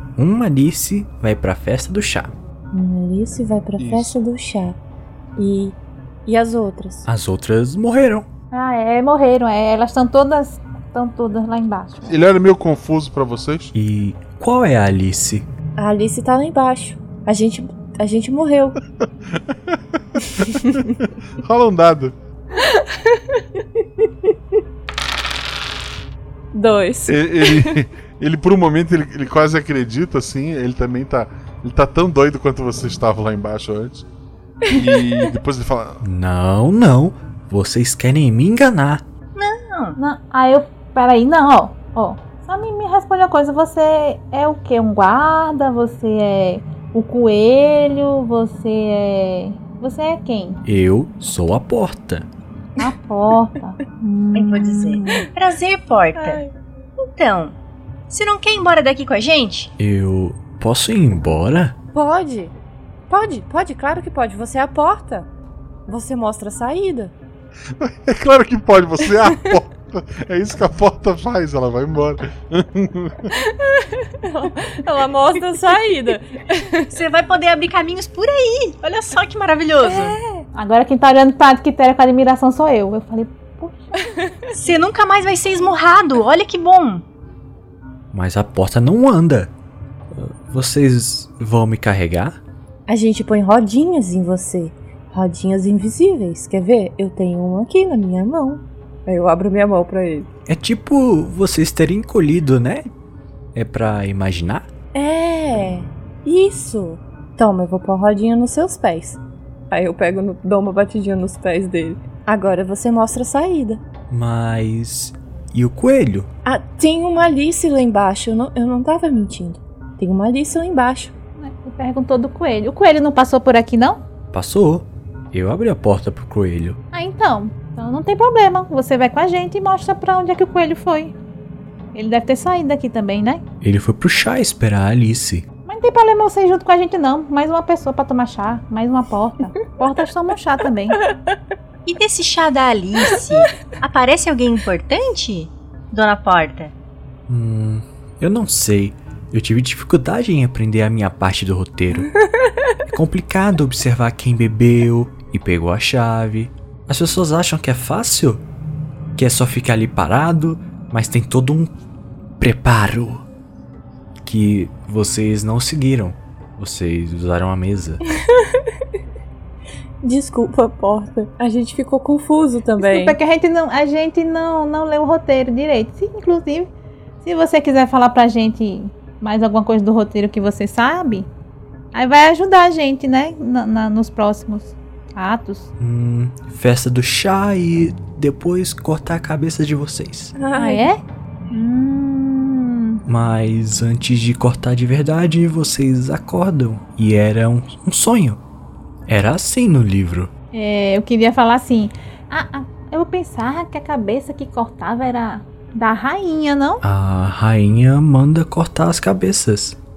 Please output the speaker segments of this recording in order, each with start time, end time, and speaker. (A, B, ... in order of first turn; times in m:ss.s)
0:00.2-0:02.4 A
0:02.7-0:04.8 B
0:03.8-0:04.2 C
0:05.4-0:07.1 B
0:07.1-0:08.3 A
0:08.5-0:12.2 D
0:12.1-0:13.7 C
0:13.7-0:15.5 A
0:15.8-0:18.8 B
0:19.4-0:22.1 C
0:22.6-0:23.2 B
0:26.5-0:27.8 B
0:27.1-0:34.0 C
0:34.7-0:36.0 C
0:36.0-0:39.0 A
0:39.4-0:40.0 E
0:40.0-0:50.6 D
0:50.6-0:52.3 A
0:52.8-0:55.2 D
0:54.3-0:56.4 E
0:56.2-0:56.5 B
0:57.0-0:57.6 E
0:58.1-0:59.7 E
0:59.8-1:01.8 A
1:01.9-1:02.5 B
1:03.1-1:05.3 B
1:05.9-1:07.1 B
1:07.8-1:13.3 C
1:13.4-1:16.9 B
1:16.9-1:20.2 E
1:19.8-1:20.5 B
1:20.5-1:23.9 D
1:24.6-1:27.0 E
1:28.1-1:29.5 A
1:30.1-1:32.4 A
1:32.9-1:40.3 B
1:40.5-1:42.9 A
1:43.6-1:44.7 A
1:44.9-1:53.8 B
1:54.1-1:56.3 A
1:56.5-2:01.1 B
2:01.4-2:04.0 D
2:04.3-2:06.8 A
2:06.9-2:11.2 D
2:11.9-2:13.4 D
2:13.6-2:15.5 A
2:15.7-2:21.0 D
2:21.9-2:26.7 E
2:27.3-2:32.1 A
2:31.9-2:32.5 B
2:32.9-2:38.4 A
2:39.2-2:41.8 A
2:42.4-2:43.3 A
2:44.2-2:48.0 A
2:48.4-2:48.6 B
2:50.0-2:53.2 B
2:52.8-2:56.7 D
2:57.2-3:01.3 D
3:01.9-3:05.7 D
3:05.8-3:10.4 A
3:10.4-3:10.9 B
3:10.6-3:13.0 D
3:13.1-3:18.4 A
3:19.1-3:20.3 A
3:20.5-3:26.8 D
3:26.8-3:29.8 A